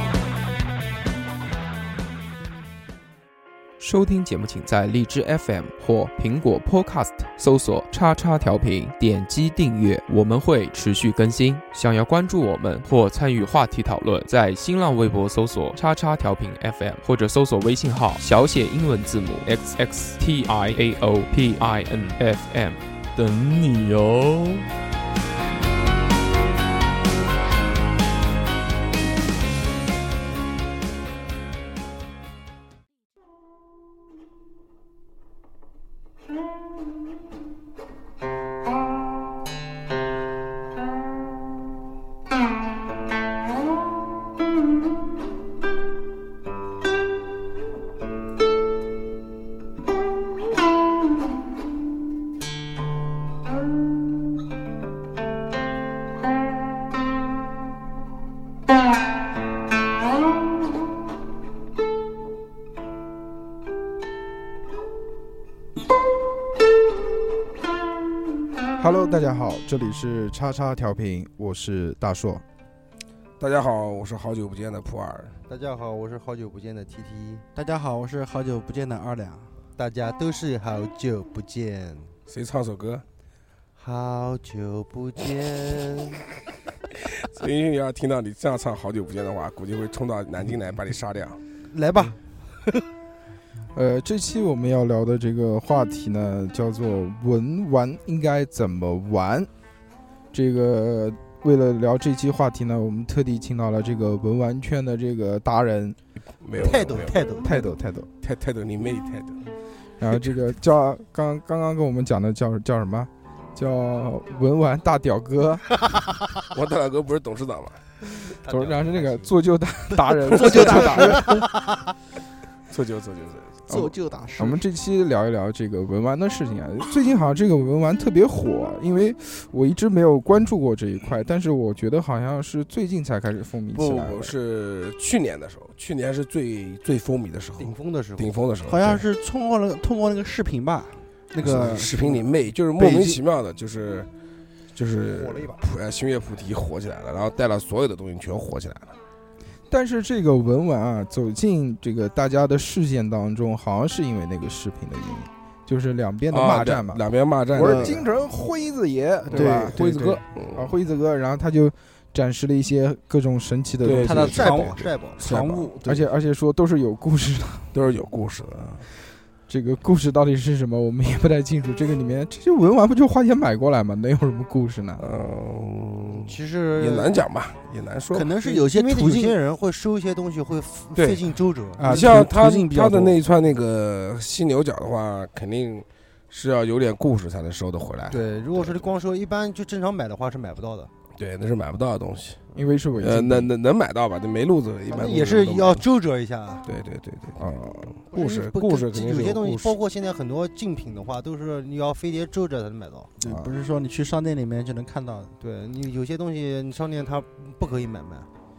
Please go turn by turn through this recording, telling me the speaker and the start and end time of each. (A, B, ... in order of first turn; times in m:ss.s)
0:03.8-0:24.7 A
1:08.8-1:12.4 B
1:13.4-1:15.4 C
1:15.5-1:17.4 D
1:17.6-1:19.5 E
1:19.8-1:22.1 D
1:22.3-1:23.0 C
1:23.8-1:26.2 D
1:27.2-1:31.4 C
1:31.7-1:32.8 D
1:33.7-1:39.5 B
1:40.3-1:46.0 B
1:46.4-1:49.4 C
1:46.6-1:47.5 D
1:47.4-1:48.1 B
1:50.0-1:55.6 B
1:56.5-1:57.8 C
1:58.4-1:59.4 D
1:58.5-2:01.4 B
2:00.3-2:01.5 D
2:00.4-2:01.2 C
2:02.7-2:03.6 C
2:03.7-2:04.6 E
2:03.7-2:14.3 B
2:13.7-2:19.1 C
2:17.6-2:18.3 D
2:18.7-2:22.2 E
2:21.4-2:24.1 C
2:22.8-2:23.2 E
2:24.8-2:29.0 C
2:25.2-2:25.6 D
2:29.7-2:44.8 B
2:36.3-2:38.0 C
2:37.6-2:38.0 E
2:39.3-2:39.8 E
2:39.3-2:40.7 C
2:39.8-2:40.2 D
2:43.8-2:45.8 C
2:44.0-2:45.9 D
2:45.8-2:47.8 B
2:47.7-2:48.8 C
2:49.5-2:55.1 B
2:55.0-2:58.4 C
2:56.1-2:57.2 D
2:58.1-2:59.4 E
2:58.4-3:02.0 D
3:01.0-3:01.3 C
3:01.8-3:02.3 B
3:01.8-3:08.9 C
3:01.9-3:03.2 E
3:08.1-3:10.9 D
3:11.2-3:12.4 C
3:12.6-3:13.5 B
3:13.0-3:15.8 C
3:14.9-3:16.7 D
3:16.7-3:19.8 C
3:17.4-3:17.9 B
3:18.1-3:23.1 D
3:23.2-3:25.3 E
3:23.2-3:23.5 B
3:25.4-3:28.3 D